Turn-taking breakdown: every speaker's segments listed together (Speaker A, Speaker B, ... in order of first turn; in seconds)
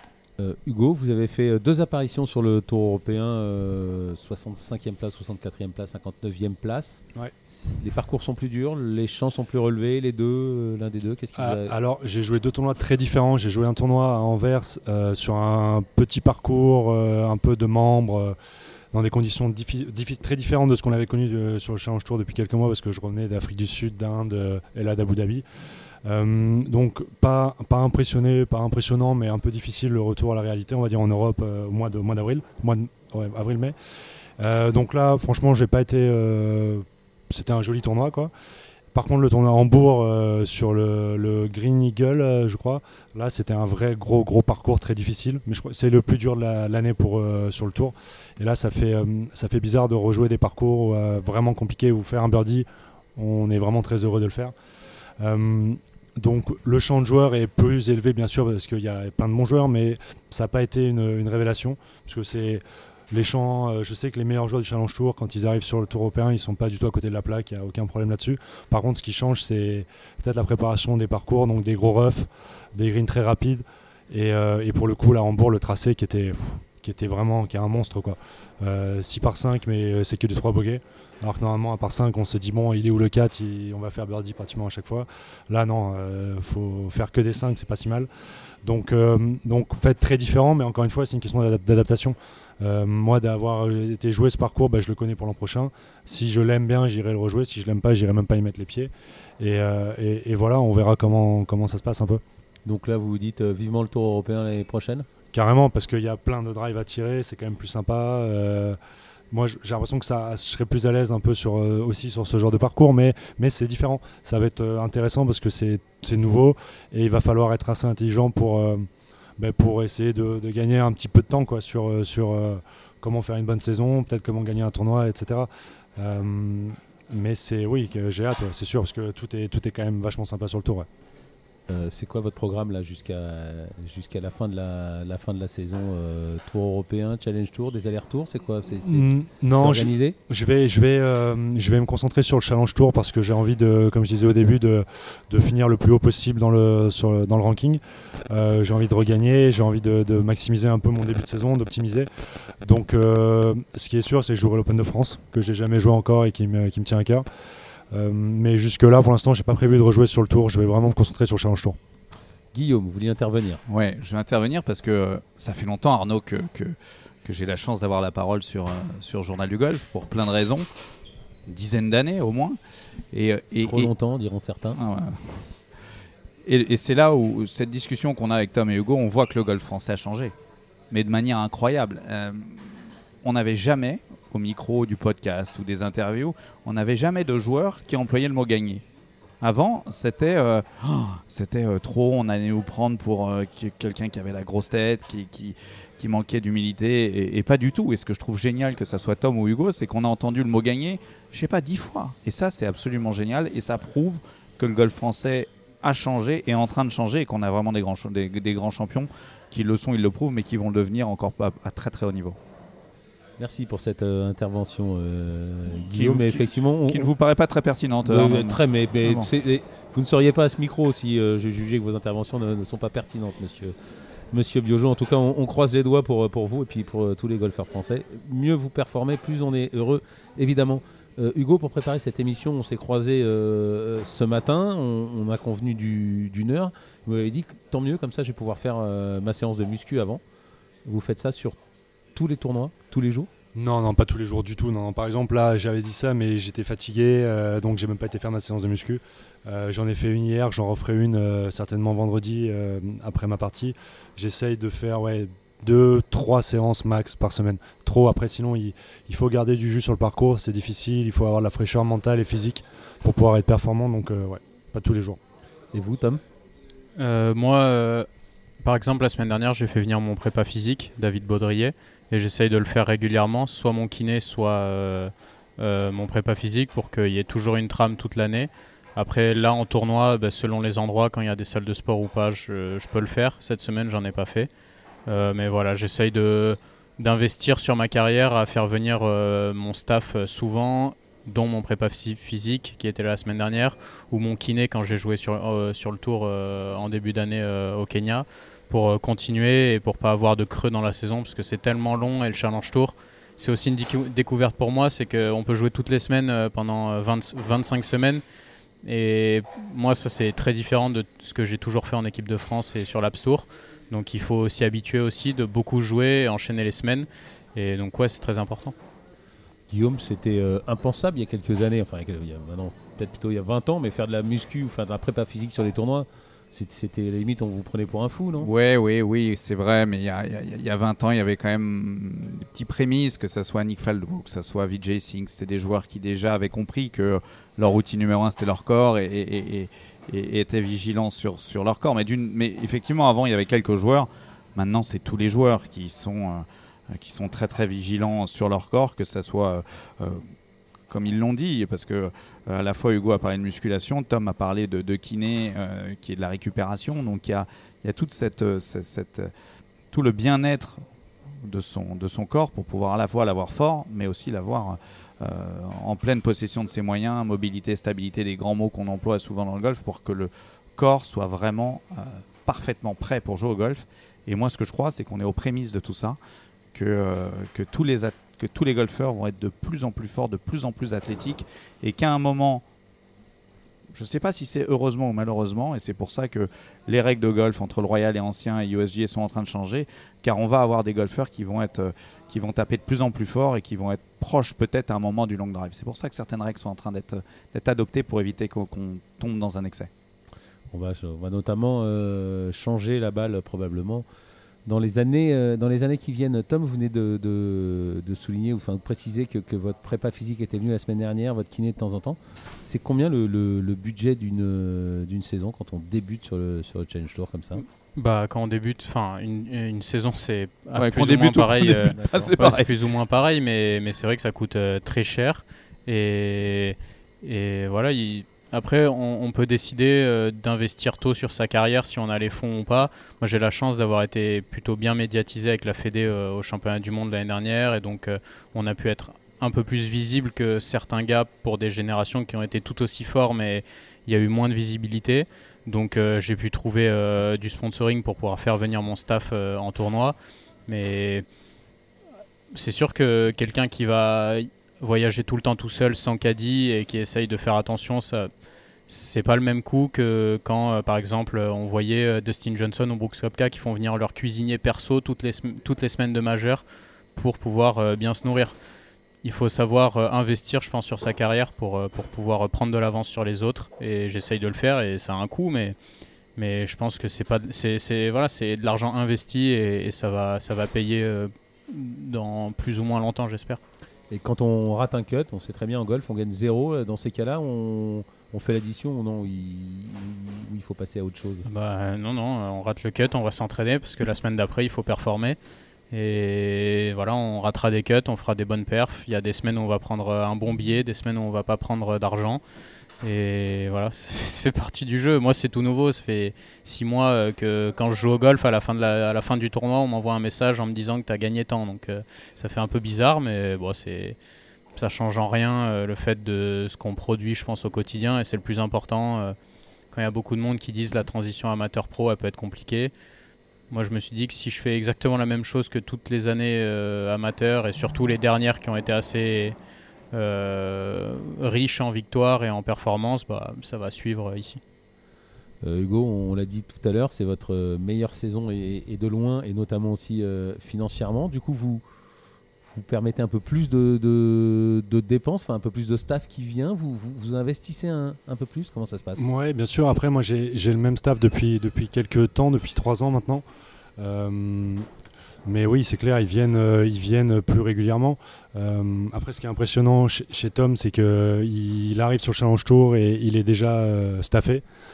Speaker A: 0.4-11.7, 102.7-105.1, 131.7-140.2, 162.5-163.6, 173.6-174.8, 213.4-217.1, 218.0-223.7, 224.3-240.2, 240.8-241.6, 242.1-243.3, 265.7-266.2, 319.7-328.5, 400.7-404.1, 404.6-417.6, 421.9-422.4, 484.1-491.4, 535.6-541.8, 542.6-549.3
Speaker B: 11.3-18.4, 18.9-25.4, 26.0-33.7, 34.4-38.3, 38.9-54.5, 55.2-88.1, 88.6-102.2, 105.3-108.8, 109.3-130.9, 138.8-152.1, 152.6-157.2, 157.9-161.8, 243.5-265.2, 549.2-553.4, 554.0-554.9, 555.5-564.6
Speaker C: 163.7-170.7, 171.5-172.6, 173.1-173.9, 174.8-175.4, 176.4-180.3, 180.9-188.8, 189.4-212.4, 215.9-219.3, 328.4-350.2, 350.9-359.3, 359.9-360.8, 361.4-376.2, 376.7-382.6, 383.9-399.9, 420.8-422.7
Speaker D: 267.0-268.1, 268.6-284.5, 285.1-308.2, 308.8-318.7, 417.6-450.1, 450.7-451.2, 452.5-458.3, 458.9-466.6, 467.1-468.5, 469.2-475.8, 476.4-483.6, 491.4-495.4, 495.9-502.4, 503.0-514.2, 514.8-519.4, 519.9-522.9, 523.7-529.5, 530.1-534.6